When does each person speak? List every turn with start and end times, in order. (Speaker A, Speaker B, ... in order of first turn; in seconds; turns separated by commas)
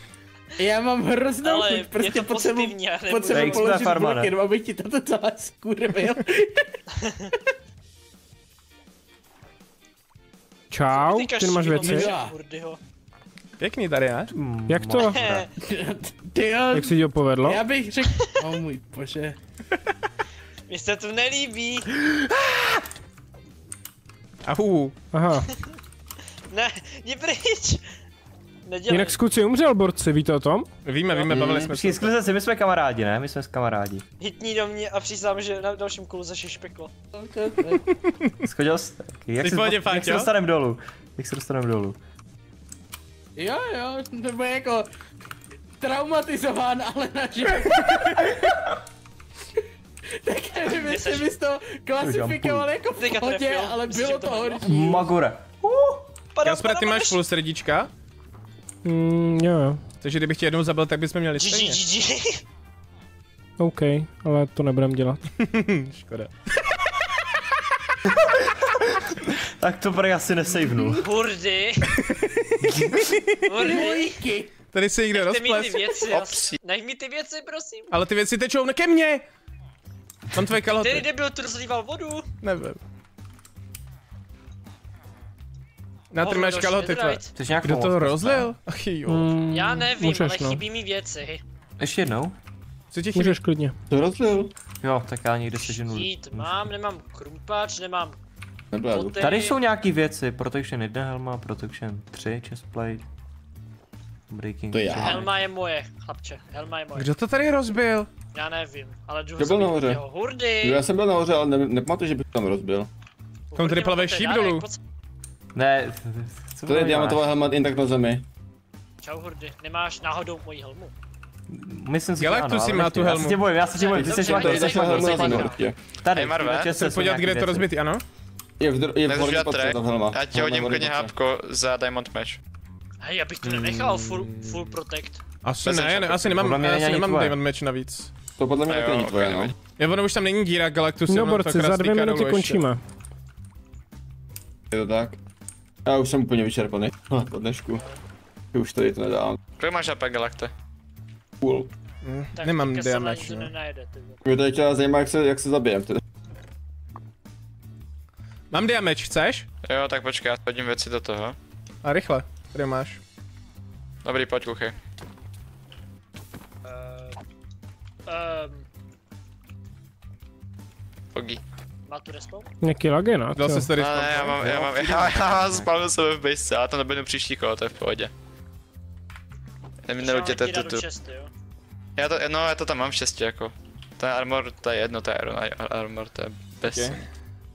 Speaker A: 0.6-6.7, Speaker B: 1.4-3.9, Speaker C: 3.3-4.3, Speaker B: 7.0-7.3, Speaker D: 10.7-12.1, Speaker B: 10.9-12.8, Speaker A: 11.8-12.3, Speaker E: 13.6-14.3, Speaker C: 14.3-15.5, Speaker D: 14.7-15.2, Speaker B: 15.0-15.5, Speaker A: 15.6-16.9, Speaker D: 16.7-17.6, Speaker A: 17.4-19.4, Speaker B: 20.7-21.9, Speaker E: 24.4-24.9, Speaker D: 25.1-25.5, Speaker B: 26.5-27.8, Speaker B: 28.6-29.1, Speaker D: 28.9-30.7, Speaker E: 30.8-32.1, Speaker B: 31.1-31.4, Speaker F: 31.3-31.7, Speaker C: 31.4-34.0, Speaker B: 34.2-36.9, Speaker A: 37.1-37.8, Speaker E: 38.0-38.3, Speaker C: 38.5-42.0, Speaker E: 39.4-40.3, Speaker A: 43.4-44.9, Speaker A: 45.8-48.7, Speaker A: 50.2-55.1, Speaker B: 50.8-51.3, Speaker C: 52.0-52.7, Speaker B: 53.0-54.8, Speaker C: 54.6-55.5, Speaker B: 56.3-57.2, Speaker E: 56.4-57.9, Speaker D: 58.8-59.8, Speaker E: 60.0-61.8, Speaker B: 61.3-62.4, Speaker D: 63.6-65.2, Speaker E: 65.4-66.3, Speaker C: 69.6-71.1, Speaker B: 71.0-72.0, Speaker B: 73.5-74.2, Speaker A: 73.5-74.5, Speaker E: 74.7-76.0, Speaker B: 75.1-77.9, Speaker G: 76.1-76.6, Speaker E: 77.9-79.2, Speaker E: 80.3-81.0, Speaker B: 80.8-82.2, Speaker E: 82.4-82.8, Speaker E: 86.1-89.3, Speaker B: 86.2-87.3, Speaker C: 87.3-88.5, Speaker D: 89.1-90.6, Speaker B: 89.5-91.4, Speaker C: 91.8-92.3, Speaker E: 92.9-93.4, Speaker D: 93.1-93.7, Speaker F: 93.9-94.5, Speaker C: 94.8-96.6, Speaker B: 95.6-98.2, Speaker F: 98.7-99.2, Speaker B: 98.9-99.6, Speaker C: 99.2-103.0, Speaker C: 104.3-105.3, Speaker F: 104.7-105.3, Speaker B: 105.0-107.1, Speaker E: 107.0-108.1, Speaker B: 108.3-110.8, Speaker F: 109.4-110.0, Speaker F: 110.6-112.9, Speaker B: 113.5-114.8, Speaker E: 113.5-114.6, Speaker C: 115.5-117.2, Speaker F: 116.7-118.2, Speaker B: 119.0-120.9, Speaker C: 121.5-127.7, Speaker E: 122.2-123.6, Speaker B: 123.7-125.6, Speaker F: 123.8-125.7, Speaker G: 126.1-126.7, Speaker E: 126.7-128.0, Speaker F: 128.6-131.1, Speaker G: 129.1-132.4, Speaker B: 133.0-135.2, Speaker C: 133.4-134.6, Speaker E: 135.4-138.1, Speaker C: 135.7-137.4, Speaker F: 138.4-139.5, Speaker G: 138.7-139.5, Speaker E: 139.8-142.6, Speaker D: 141.1-142.8, Speaker F: 144.7-145.2, Speaker F: 145.8-147.8, Speaker F: 148.5-149.4, Speaker G: 149.6-150.5, Speaker F: 151.4-151.7, Speaker E: 152.0-153.5, Speaker B: 152.4-154.2, Speaker F: 154.2-156.0, Speaker E: 158.5-159.4, Speaker G: 159.6-161.3, Speaker E: 161.8-163.0, Speaker G: 164.0-164.7, Speaker B: 166.6-167.2, Speaker B: 168.1-168.6, Speaker G: 171.1-171.4, Speaker B: 171.9-172.5, Speaker D: 172.6-173.7, Speaker E: 173.3-175.1, Speaker G: 173.8-178.1, Speaker G: 179.8-180.8, Speaker B: 180.0-181.3, Speaker G: 182.0-187.0, Speaker E: 186.7-187.0